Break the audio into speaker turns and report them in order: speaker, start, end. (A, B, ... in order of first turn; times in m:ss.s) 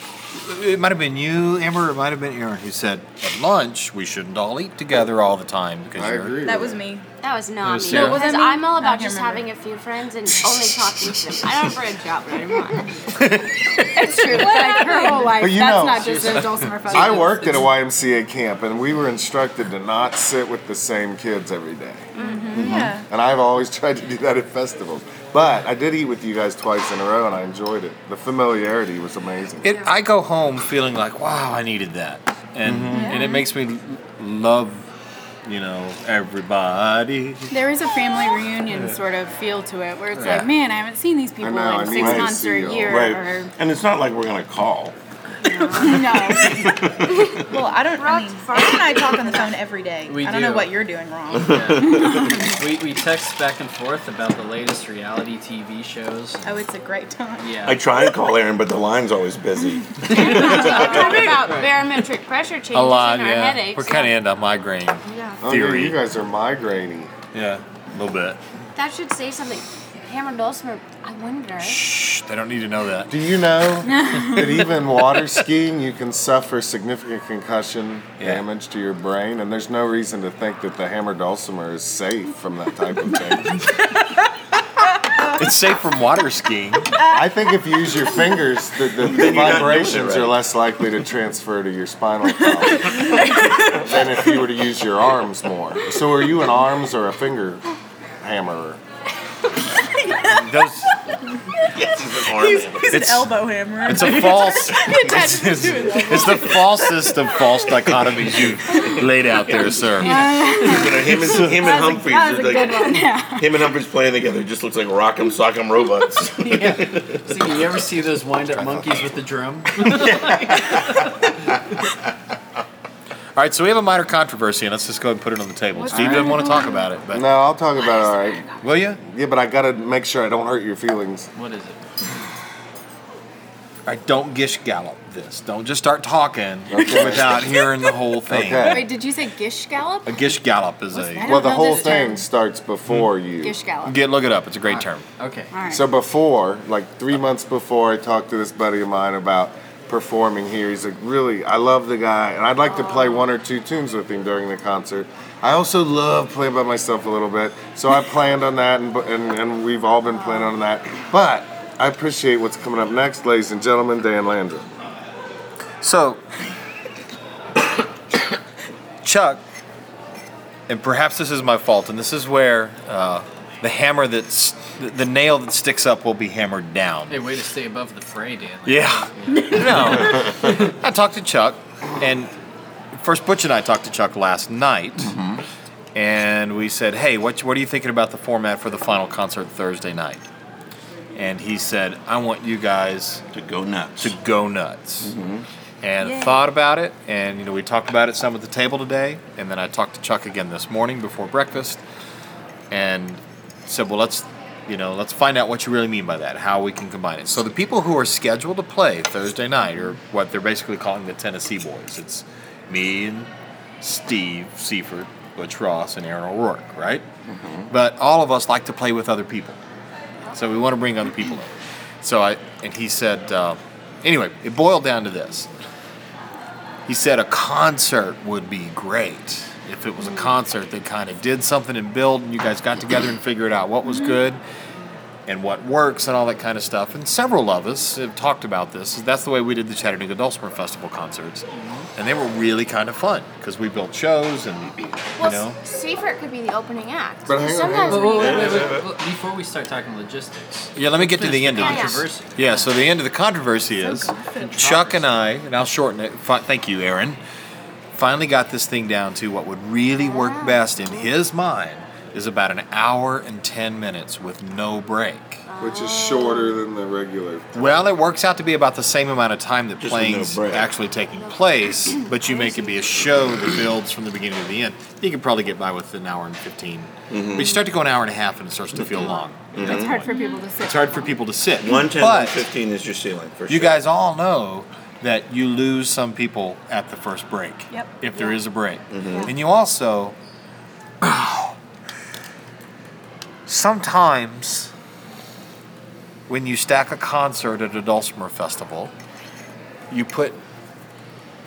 0:00.3-0:06.4 A
0:05.9-0:06.8 B
0:06.4-0:07.1 C
0:07.2-0:13.0 D
0:07.6-0:08.4 A
0:07.9-0:09.5 C
0:10.4-0:11.2 A
0:13.0-0:14.4 A
0:13.9-0:17.5 E
0:14.3-0:15.4 C
0:15.3-0:16.2 B
0:15.9-0:17.7 F
0:16.9-0:22.1 B
0:22.1-0:22.6 D
0:22.2-0:23.0 C
0:22.5-0:22.9 G
0:22.9-0:29.7 B
0:29.6-0:34.9 A
0:32.6-0:33.1 G
0:32.9-0:33.4 C
0:35.4-0:37.5 A
0:37.5-0:43.5 E
0:40.1-0:40.5 A
0:41.4-0:43.1 B
0:41.9-0:42.3 G
0:42.9-0:45.0 G
0:45.4-0:46.1 D
0:45.7-0:46.7 E
0:45.8-0:47.4 G
0:47.0-0:49.5 D
0:47.4-0:52.0 C
0:50.1-0:50.8 F
0:51.3-0:56.4 F
0:51.5-0:52.5 G
0:56.4-0:57.6 C
0:57.4-0:57.8 F
0:57.6-1:01.3 G
1:00.1-1:04.1 D
1:00.1-1:01.7 F
1:00.3-1:01.1 C
1:02.7-1:06.0 A
1:05.0-1:05.4 D
1:05.4-1:07.1 B
1:07.3-1:08.4 A
1:08.8-1:11.9 D
1:11.6-1:13.1 A
1:13.1-1:23.6 B
1:13.9-1:14.4 E
1:14.2-1:14.5 A
1:25.3-1:27.0 A
1:26.9-1:27.3 C
1:27.1-1:33.1 B
1:29.0-1:30.4 G
1:32.4-1:34.2 C
1:33.7-1:37.6 B
1:38.2-1:38.8 B
1:39.9-1:40.9 C
1:40.2-1:40.9 A
1:41.6-1:47.5 C
1:41.7-1:43.0 G
1:42.9-1:43.3 A
1:43.8-1:50.3 A
1:47.9-1:57.7 G
1:50.0-1:53.5 E
1:51.2-1:51.6 A
1:56.4-2:01.2 F
1:58.5-1:59.1 A
2:00.0-2:00.8 A
2:00.0-2:00.7 G
2:03.4-2:07.2 A
2:05.8-2:06.8 E
2:05.9-2:06.4 F
2:07.1-2:08.4 B
2:08.6-2:09.0 A
2:09.0-2:11.3 B
2:11.3-2:11.8 F
2:13.8-2:18.9 A
2:16.7-2:17.7 B
2:18.3-2:18.8 B
2:18.6-2:20.3 E
2:20.0-2:21.5 A
2:20.9-2:22.2 E
2:21.2-2:23.6 B
2:21.6-2:22.0 F
2:23.4-2:24.0 E
2:23.8-2:25.0 A
2:24.7-2:25.5 F
2:25.5-2:25.8 E
2:25.7-2:44.7 B
2:32.6-2:33.3 D
2:40.1-2:40.5 D
2:45.8-2:46.2 A
2:49.0-2:49.4 A
2:50.7-2:57.2 A
2:57.1-3:00.7 F
2:58.6-3:02.3 A
2:59.7-3:00.5 G
3:02.9-3:05.1 A
3:05.0-3:05.4 G
3:06.0-3:10.2 A
3:11.1-3:13.2 A
3:13.3-3:14.2 G
3:14.0-3:15.1 A
3:15.0-3:15.5 G
3:15.8-3:21.8 A
3:16.0-3:16.5 C
3:22.7-3:37.0 A
3:37.3-3:37.7 G
3:37.7-3:39.6 A
3:40.3-3:45.5 A
3:46.9-3:54.4 A
3:50.0-3:50.3 D
3:55.3-4:05.6 A
4:01.5-4:01.9 F
4:05.2-4:08.7 D
4:07.2-4:08.3 B
4:07.8-4:12.6 F
4:08.1-4:08.9 G
4:10.8-4:17.2 A
4:11.6-4:12.0 D
4:13.8-4:14.4 C
4:14.4-4:15.0 F
4:17.9-4:25.4 A
4:20.0-4:21.0 D
4:25.5-4:26.6 D
4:25.6-4:27.9 B
4:27.5-4:42.4 A
4:29.8-4:30.7 G
4:31.2-4:32.9 D
4:37.1-4:37.6 G
4:39.5-4:40.0 G
4:39.6-4:41.1 E
4:40.1-4:40.4 D
4:41.6-4:43.8 G
4:43.5-4:50.1 A
4:47.7-4:48.0 C
4:48.9-4:49.3 G
4:51.0-4:51.5 A
4:53.5-4:54.7 A
4:56.3-4:58.9 A
4:59.9-5:00.4 A